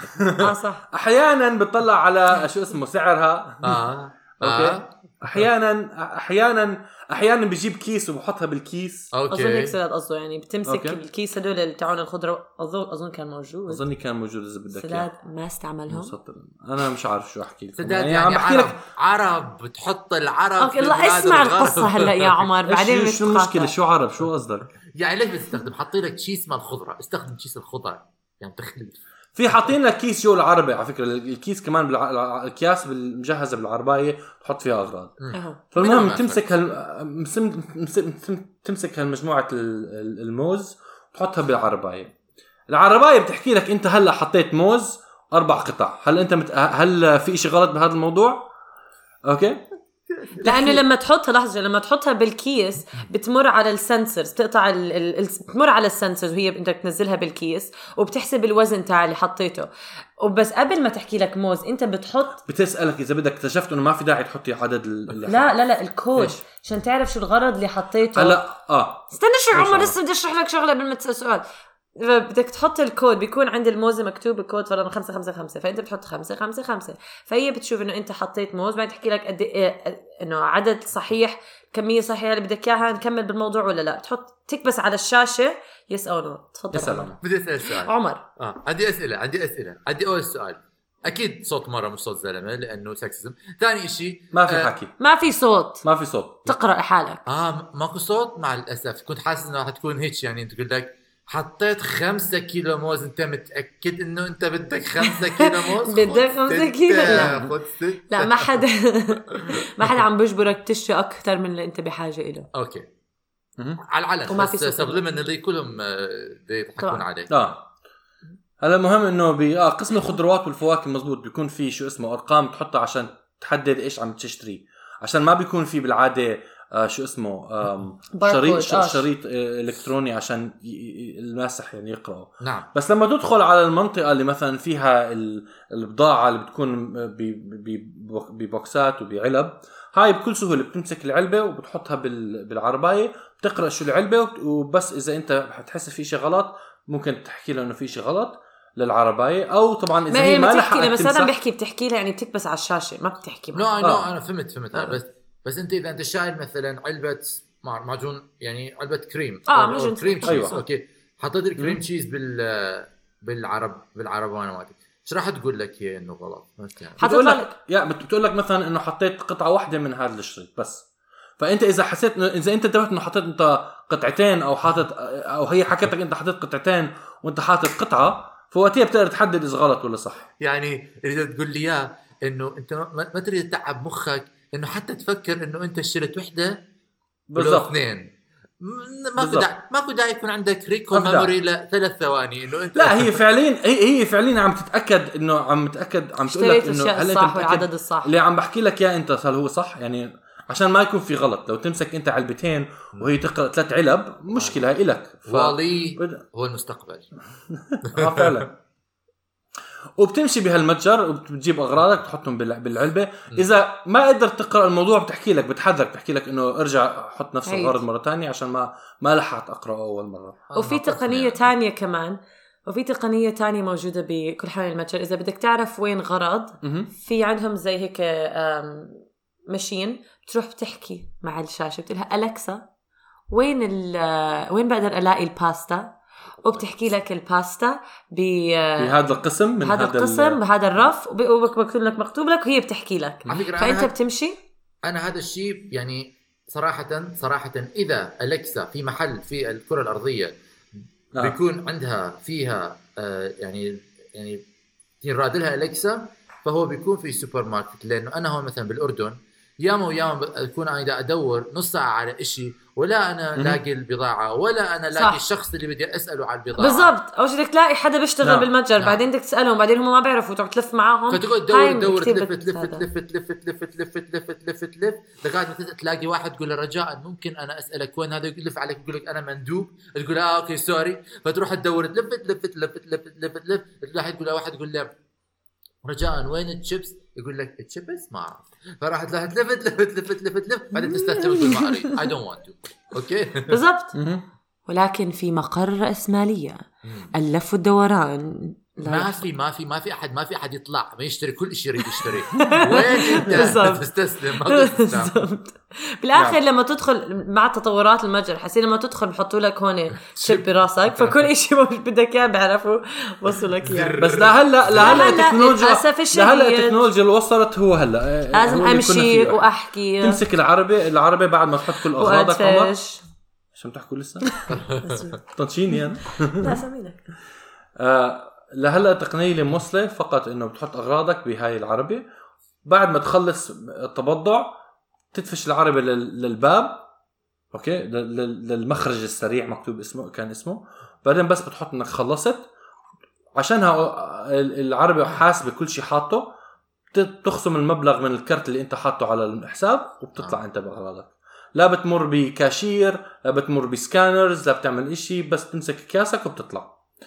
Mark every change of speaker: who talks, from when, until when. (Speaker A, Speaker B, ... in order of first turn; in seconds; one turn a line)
Speaker A: 0.1-3.8
Speaker B: 0.4-0.8
Speaker C: 3.6-4.9
Speaker A: 4.4-9.1
Speaker C: 9.1-9.8
Speaker B: 9.3-13.8
Speaker A: 10.7-11.0
Speaker A: 13.7-15.1
Speaker B: 14.7-16.1
Speaker A: 15.9-18.8
Speaker C: 17.8-22.4
Speaker B: 20.6-23.7
Speaker A: 22.7-24.7
Speaker C: 25.0-29.0
Speaker A: 29.4-35.2
Speaker C: 35.2-36.4
Speaker B: 35.3-35.6
Speaker A: 35.7-42.1
Speaker A: 42.7-48.5
Speaker A: 49.3-49.6
Speaker C: 50.2-50.8
Speaker B: 50.4-62.4
Speaker A: 62.4-65.5
Speaker B: 65.3-68.4
Speaker A: 68.1-70.0
Speaker B: 69.1-71.5
Speaker B: 72.0-88.2
Speaker A: 86.7-87.2
Speaker C: 87.2-94.7
Speaker A: 94.3-94.9
Speaker B: 95.0-95.8
Speaker A: 95.8-96.5
Speaker B: 96.5-97.2
Speaker C: 97.3-108.6
Speaker B: 105.0-107.4
Speaker A: 107.1-107.5
Speaker B: 108.1-112.5
Speaker C: 112.5-112.9
Speaker C: 113.8-117.5
Speaker B: 114.3-115.0
Speaker B: 116.8-117.0
Speaker A: 117.3-117.6
Speaker A: 118.6-151.3
Speaker B: 128.1-129.1
Speaker C: 132.4-132.7
Speaker B: 150.1-153.7
Speaker C: 153.5-167.0
Speaker A: 153.8-154.1
Speaker B: 159.5-160.6
Speaker A: 160.2-160.6
Speaker A: 161.6-161.8
Speaker B: 167.0-167.5
Speaker A: 167.0-170.9
Speaker A: 171.4-180.3
Speaker C: 180.4-186.6
Speaker A: 187.3-187.7
Speaker C: 187.4-188.1
Speaker C: 188.6-193.2
Speaker A: 189.2-189.5
Speaker A: 190.9-191.3
Speaker A: 192.8-206.2
Speaker B: 196.3-198.1
Speaker C: 204.3-204.6
Speaker C: 205.3-207.1
Speaker A: 207.5-208.5
Speaker C: 207.9-208.5
Speaker A: 210.0-220.4
Speaker B: 217.5-217.8
Speaker C: 220.5-221.5
Speaker B: 220.6-232.7
Speaker A: 226.6-226.9
Speaker B: 233.3-239.0
Speaker A: 238.8-240.4
Speaker B: 239.6-244.4
Speaker C: 243.3-243.9
Speaker C: 244.8-250.3
Speaker C: 251.2-254.4
Speaker C: 255.0-266.9
Speaker A: 263.4-263.6
Speaker B: 264.9-265.2
Speaker B: 266.6-272.9
Speaker A: 268.2-268.5
Speaker C: 268.8-269.0
Speaker C: 271.1-284.9
Speaker C: 285.8-293.6
Speaker B: 290.8-292.0
Speaker B: 293.5-293.9
Speaker A: 293.9-294.2
Speaker B: 294.7-299.2
Speaker C: 296.9-297.1
Speaker C: 298.9-305.2
Speaker B: 302.0-314.0
Speaker A: 303.3-303.6
Speaker C: 310.2-310.5
Speaker C: 313.6-314.9
Speaker A: 314.0-319.5
Speaker B: 314.8-316.8
Speaker B: 318.3-320.2
Speaker A: 320.0-322.8
Speaker B: 321.9-323.0
Speaker A: 323.5-324.3
Speaker B: 324.4-325.2
Speaker C: 324.5-325.1
Speaker A: 325.3-326.6
Speaker B: 326.4-327.1
Speaker A: 327.8-332.1
Speaker A: 332.6-334.6
Speaker A: 335.1-336.9
Speaker A: 337.5-342.4
Speaker A: 343.4-346.3
Speaker A: 346.9-356.8